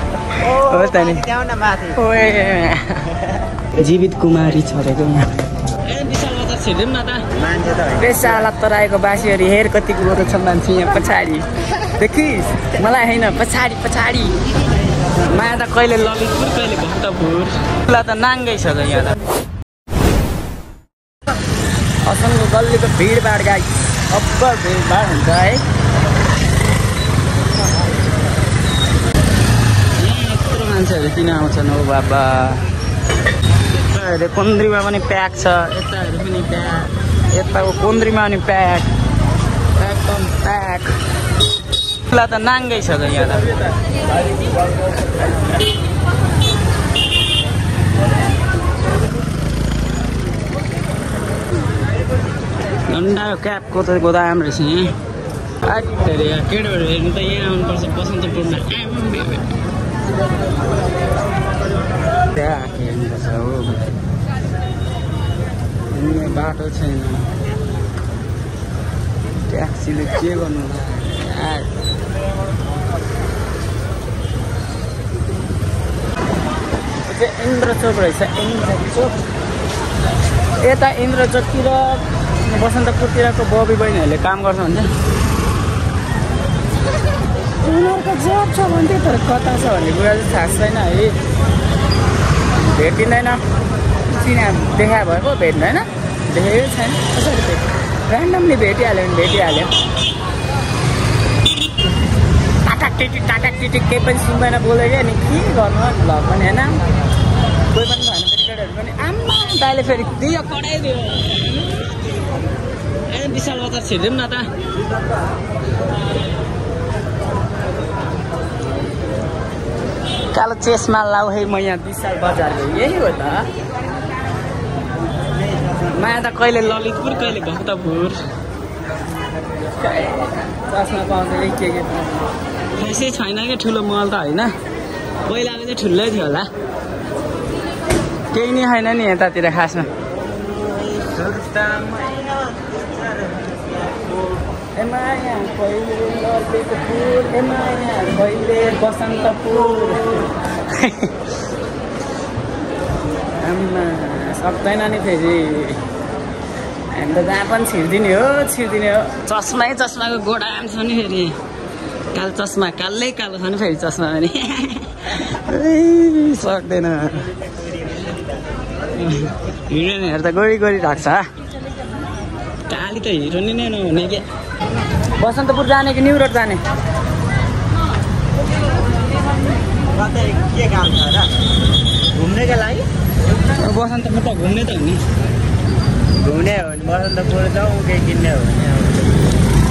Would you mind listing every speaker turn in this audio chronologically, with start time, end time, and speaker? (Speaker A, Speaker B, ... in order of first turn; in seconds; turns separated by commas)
Speaker A: 0.4-2.0, Speaker B: 0.4-1.2, Speaker B: 1.9-3.1, Speaker B: 3.8-5.3, Speaker B: 5.8-7.2, Speaker A: 7.3-8.4, Speaker B: 8.0-14.4, Speaker B: 15.2-19.2, Speaker B: 22.0-25.6, Speaker B: 30.0-32.7, Speaker B: 33.6-38.9, Speaker B: 39.8-40.9, Speaker B: 42.1-43.6, Speaker B: 52.9-55.0, Speaker B: 55.6-59.5, Speaker B: 62.3-63.9, Speaker B: 65.9-67.3, Speaker B: 69.5-71.7, Speaker B: 77.1-79.2, Speaker B: 80.6-84.9, Speaker B: 87.6-91.2, Speaker B: 92.6-93.4, Speaker B: 94.1-99.7, Speaker B: 102.6-106.8, Speaker B: 107.7-111.5, Speaker B: 113.1-114.5, Speaker B: 120.3-123.5, Speaker A: 125.3-126.0, Speaker B: 125.9-128.2, Speaker B: 129.8-132.2, Speaker B: 132.8-134.5, Speaker B: 135.2-136.5, Speaker B: 138.3-139.9, Speaker A: 140.3-144.3, Speaker B: 144.8-151.3, Speaker B: 153.4-155.8, Speaker B: 156.9-161.3, Speaker B: 162.1-167.3, Speaker A: 167.2-168.8, Speaker B: 168.9-171.3, Speaker B: 172.7-174.2, Speaker B: 175.2-176.6, Speaker A: 179.9-181.3, Speaker A: 182.1-182.9, Speaker B: 183.6-185.0, Speaker A: 186.2-189.3